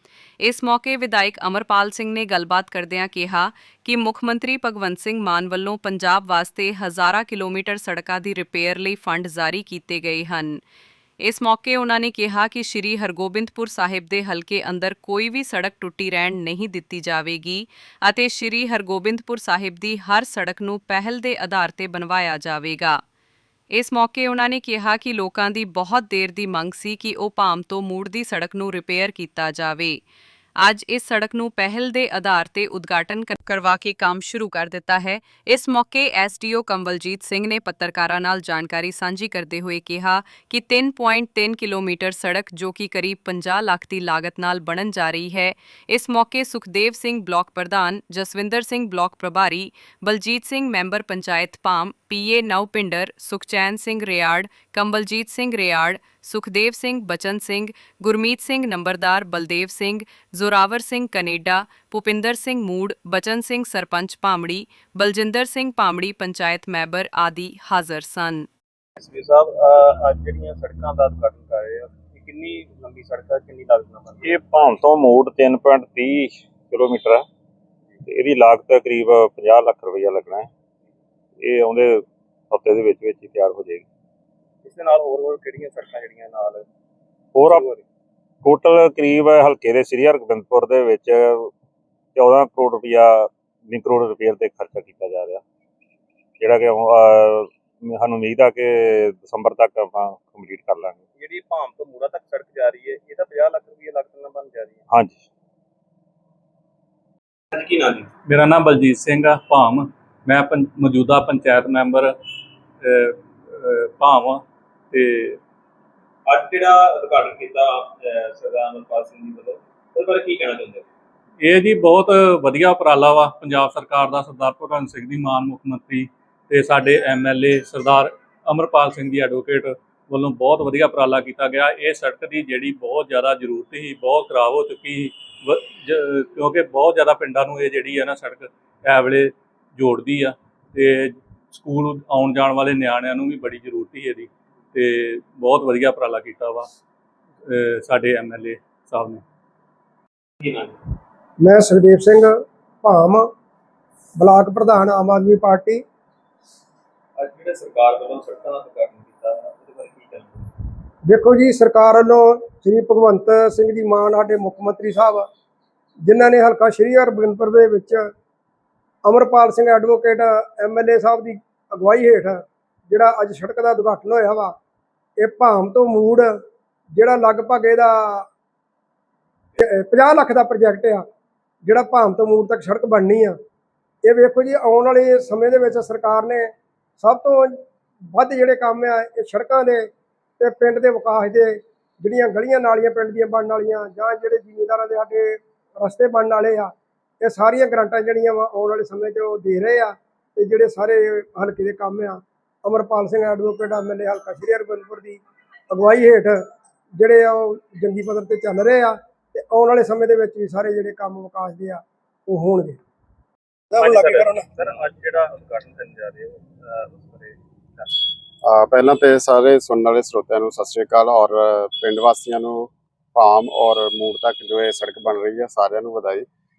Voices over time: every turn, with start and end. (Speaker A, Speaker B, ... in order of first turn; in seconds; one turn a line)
Speaker A: 0.4-10.6
Speaker A: 11.2-23.0
Speaker A: 23.7-30.0
Speaker A: 30.6-68.5
Speaker B: 69.0-74.2
Speaker C: 74.2-77.3
Speaker C: 78.1-80.5
Speaker C: 81.4-83.8
Speaker B: 84.6-86.6
Speaker C: 87.3-87.7
Speaker B: 87.5-87.8
Speaker C: 88.4-91.5
Speaker C: 92.1-95.4
Speaker C: 96.4-101.0
Speaker B: 101.2-104.8
Speaker C: 104.9-105.2
Speaker B: 107.5-108.1
Speaker D: 108.3-112.1
Speaker D: 112.8-115.4
Speaker B: 116.2-120.8
Speaker D: 121.4-146.7
Speaker D: 147.5-149.2
Speaker B: 150.4-150.8
Speaker E: 151.4-153.3
Speaker E: 154.2-155.8
Speaker B: 157.2-160.5
Speaker E: 161.0-165.2
Speaker E: 166.0-168.1
Speaker E: 169.0-174.5
Speaker E: 175.2-176.3
Speaker E: 176.9-178.2
Speaker E: 179.6-181.0
Speaker E: 181.6-183.3
Speaker E: 184.0-187.6
Speaker E: 188.1-189.9
Speaker E: 190.4-206.4
Speaker E: 207.0-212.8
Speaker E: 213.7-214.5
Speaker B: 213.8-218.0
Speaker F: 218.4-226.2